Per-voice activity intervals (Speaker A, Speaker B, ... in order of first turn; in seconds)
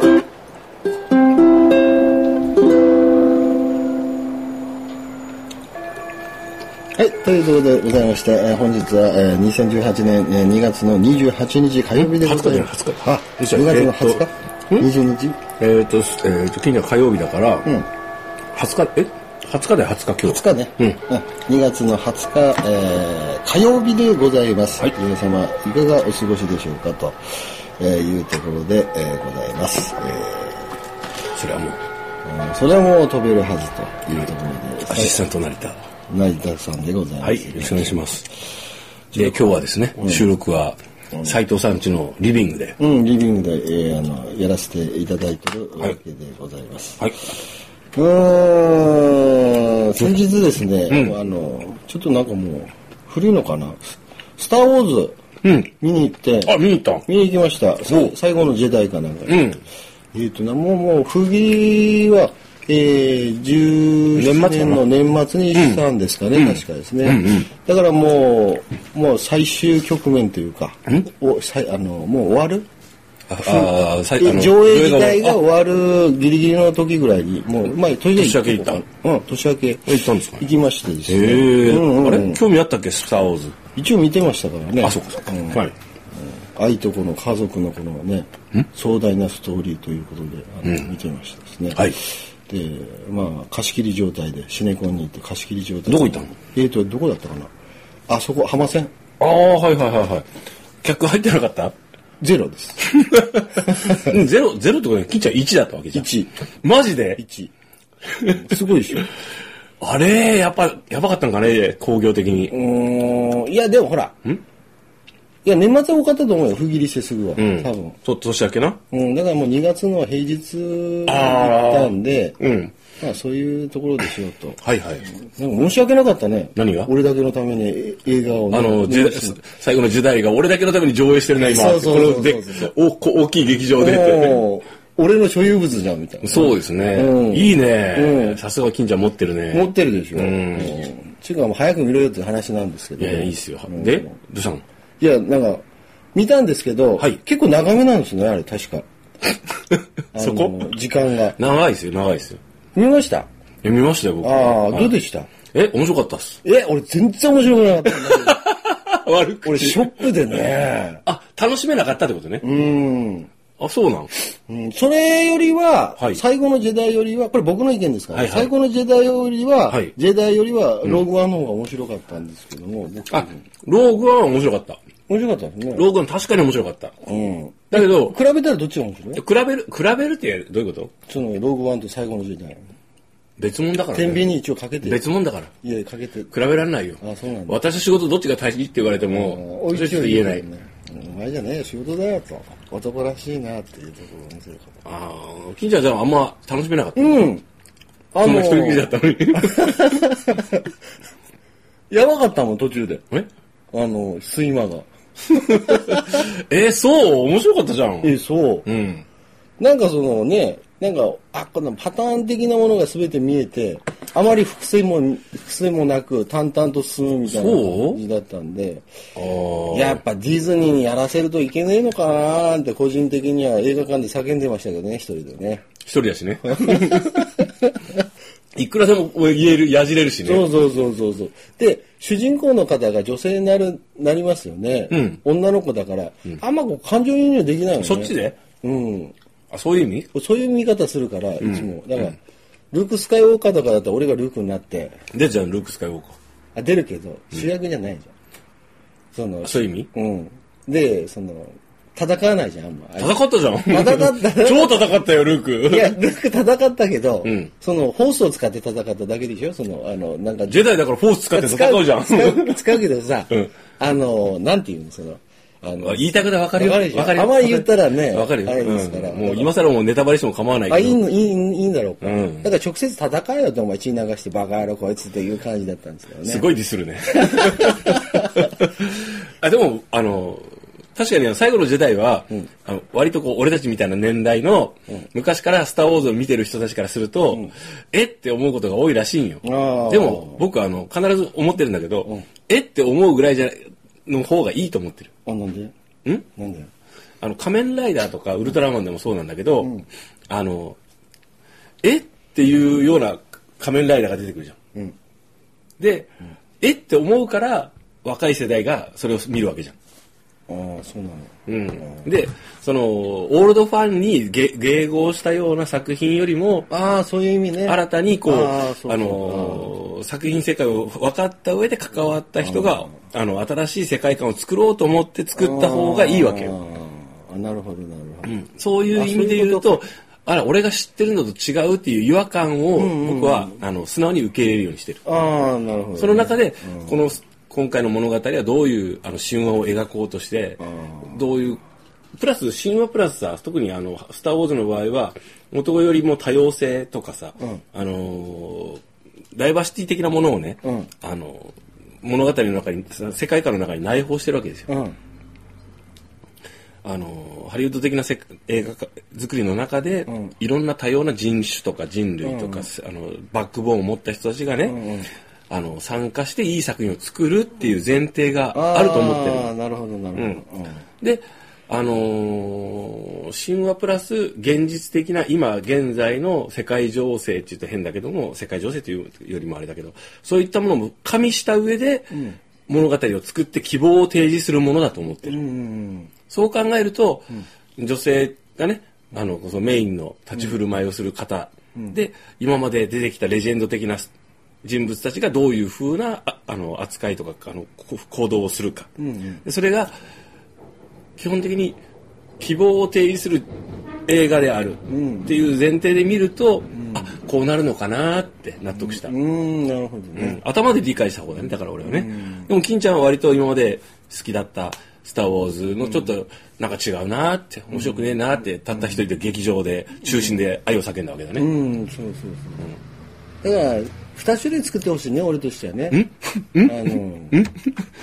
Speaker A: 7.0-15.4, 20.2-27.2, 27.8-30.7, 32.2-35.2, 36.1-38.1, 40.0-40.2, 42.8-47.1, 47.9-53.8, 54.4-55.2, 55.8-59.5, 60.1-72.7, 73.4-82.4, 83.7-85.7, 86.2-97.5, 98.1-98.9, 102.2-102.9, 103.7-104.0, 105.9-106.3, 107.2-107.5, 108.2-109.1, 112.5-114.2, 115.5-118.0, 118.9-122.4, 123.0-129.4, 131.3-132.7, 133.8-138.4, 139.5-144.2, 145.0-148.9, 150.1-151.4, 152.8-153.3, 154.2-155.3, 156.4-158.4, 159.4-161.0, 162.4-163.3, 164.5-173.4, 175.1-175.9, 177.0-179.2, 181.1-182.7, 183.9-185.0, 185.6-186.3, 187.0-187.6, 189.1-194.8, 197.0-197.4, 198.1-200.7, 201.9-203.0, 203.7-206.2, 208.0-208.7, 209.6-218.9, 219.7-225.7, 226.5-227.9, 230.2-239.1, 240.1-242.2, 242.7-245.0, 246.6-248.1, 249.1-255.0, 255.6-260.8, 261.3-269.5, 270.7-276.5, 277.2-278.4, 289.4-290.4, 295.3-295.7, 296.3-296.7, 299.6-299.9, 310.5-312.1, 316.7-319.7, 322.4-322.9, 325.4-328.4, 328.9-329.8, 332.7-333.6, 335.1-336.9, 340.6-341.2, 350.6-350.9, 354.7-355.0, 362.2-362.7, 364.6-365.1, 368.5-370.8, 382.1-382.4, 385.3-386.1, 399.0-399.4, 404.9-405.4, 406.8-407.1, 408.7-410.4, 411.8-412.5, 417.7-418.1, 421.4-422.7, 423.4-426.1, 426.6-427.4
Speaker B: 12.0-14.9, 15.6-17.7, 18.5-21.0, 31.3-31.8, 34.9-35.8, 37.2-38.3, 39.1-42.8, 55.4-55.7, 56.5-57.0, 57.9-58.1, 59.3-59.6, 64.2-64.9, 65.5-65.8, 66.3-67.5, 73.3-75.4, 78.1-78.8, 79.9-80.5, 81.1-83.6, 84.8-85.7, 95.9-96.3, 99.2-100.3, 100.8-101.8, 102.8-106.1, 106.6-107.2, 108.2-108.5, 109.8-112.5, 117.4-118.8, 121.1-122.8, 124.6-125.1, 126.6-126.9, 128.5-134.5, 136.2-140.9, 143.0-144.6, 149.7-150.7, 151.4-152.4, 153.6-154.9, 155.5-156.4, 157.8-160.4, 161.1-162.4, 163.6-164.1, 168.1-168.5, 173.1-174.8, 175.7-176.9, 177.7-178.2, 179.1-180.9, 183.4-185.5, 186.3-190.5, 194.8-197.3, 198.2-200.0, 205.3-208.1, 208.7-209.1, 217.3-218.0, 219.2-220.0, 225.8-227.3, 228.6-230.5, 234.9-235.2, 237.8-238.4, 239.5-240.1, 241.4-241.7, 245.1-246.2, 249.4-249.9, 253.0-256.0, 257.2-257.5, 260.5-262.6, 265.8-271.0, 272.0-272.5, 276.2-295.1, 297.2-299.7, 300.3-300.8, 301.8-304.6, 305.8-306.1, 306.6-309.8, 311.5-316.7, 317.6-326.6, 328.2-335.0, 336.0-341.6, 342.2-348.8, 349.3-354.7, 356.8-364.8, 365.5-369.5, 370.1-370.4, 371.0-385.4, 386.3-394.1, 394.6-398.9, 399.4-400.0, 401.2-401.8, 402.4-403.5, 404.1-409.1, 410.1-421.5, 425.9-427.7